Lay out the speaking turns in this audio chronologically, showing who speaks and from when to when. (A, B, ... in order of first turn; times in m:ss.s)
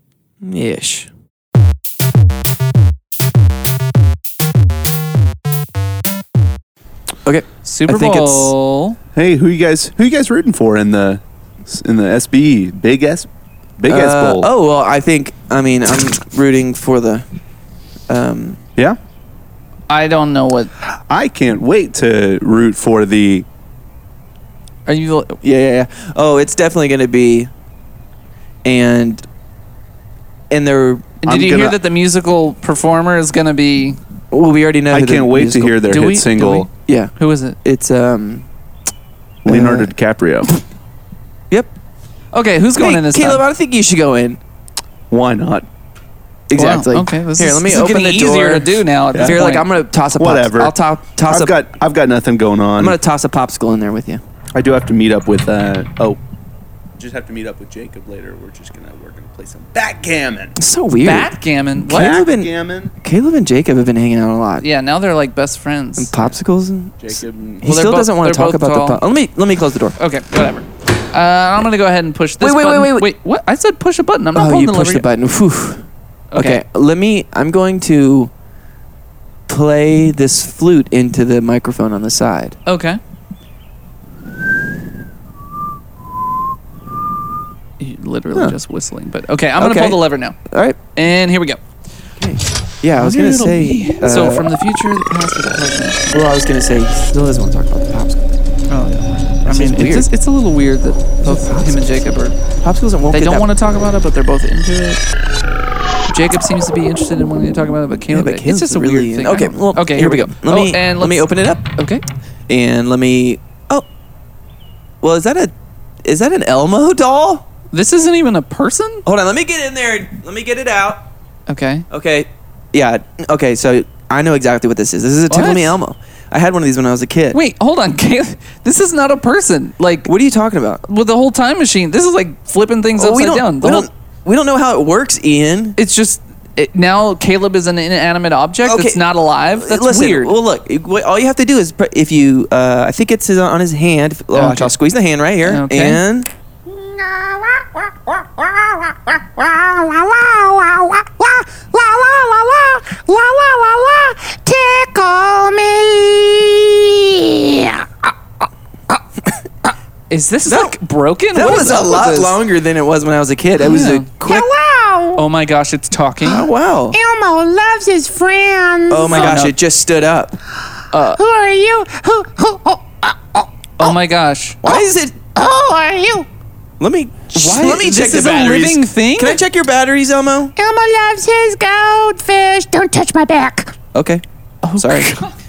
0:00.4-0:01.1 A
0:07.2-0:08.5 A
0:07.6-0:09.0 B
0:09.2-0:13.3 C
0:13.8-0:14.5 C
0:13.9-0:17.3 A
0:18.1-0:18.6 A
0:19.9-0:20.7 B
0:21.1-0:23.5 C
0:24.9-0:25.4 B
0:25.4-0:27.5 A
0:28.6-0:29.2 A
0:30.5-0:31.1 A
0:31.2-0:34.0 B
0:31.3-0:31.8 C
0:34.3-0:35.8 A
0:34.9-0:36.7 C
0:35.8-0:37.6 B
0:36.9-0:37.1 A
0:37.6-0:38.5 A
0:39.4-0:40.6 C
0:39.5-0:39.9 A
0:42.3-0:43.4 B
0:42.8-0:44.4 A
0:45.1-0:45.7 C
0:46.5-0:51.6 A
0:46.6-0:49.7 B
0:49.1-0:49.5 C
0:50.1-0:50.8 C
0:51.3-0:53.0 C
0:52.8-0:54.2 A
0:54.6-0:56.2 C
0:57.0-1:00.6 C
1:00.6-1:01.3 A
1:01.0-1:02.2 B
1:01.9-1:02.9 C
1:01.9-1:04.6 A
1:04.6-1:06.2 B
1:06.0-1:10.0 A
1:07.0-1:07.7 C
1:07.6-1:09.0 B
1:10.0-1:15.1 B
1:12.4-1:13.1 A
1:14.4-1:18.3 A
1:16.3-1:16.6 B
1:19.5-1:22.6 A
1:22.7-1:23.0 B
1:27.8-1:30.4 B
1:29.6-1:30.0 A
1:30.5-1:30.8 A
1:31.0-1:31.6 B
1:32.2-1:34.5 A
1:33.0-1:36.1 B
1:36.1-1:38.3 A
1:38.7-1:42.4 B
1:39.5-1:40.1 A
1:41.2-1:41.8 A
1:42.6-1:43.5 A
1:43.1-1:45.0 B
1:46.1-1:52.0 B
1:48.1-1:51.7 A
1:52.5-1:53.9 A
1:55.0-1:57.4 A
1:57.7-1:59.0 B
1:59.0-2:01.0 A
2:01.5-2:01.9 B
2:01.9-2:07.4 A
2:05.3-2:05.8 B
2:07.3-2:10.1 B
2:10.0-2:10.8 A
2:10.9-2:13.9 B
2:13.0-2:15.8 A
2:15.8-2:20.4 B
2:18.6-2:19.0 A
2:19.6-2:26.3 A
2:24.3-2:24.7 B
2:25.4-2:26.0 B
2:26.7-2:38.1 D
2:40.1-2:42.4 B
2:40.5-2:40.8 A
2:41.3-2:44.5 A
2:43.6-2:44.1 B
2:44.2-2:45.2 D
2:45.2-2:46.5 B
2:46.2-2:47.0 A
2:46.9-2:49.4 D
2:48.9-2:50.4 A
2:49.1-2:49.6 B
2:50.9-2:51.2 B
2:51.1-2:53.9 D
2:53.8-2:54.6 B
2:54.6-2:55.2 A
2:54.7-2:56.3 D
2:56.8-3:00.5 A
2:57.3-2:59.4 B
3:00.6-3:03.8 D
3:03.9-3:04.2 A
3:04.6-3:05.3 B
3:04.8-3:05.1 A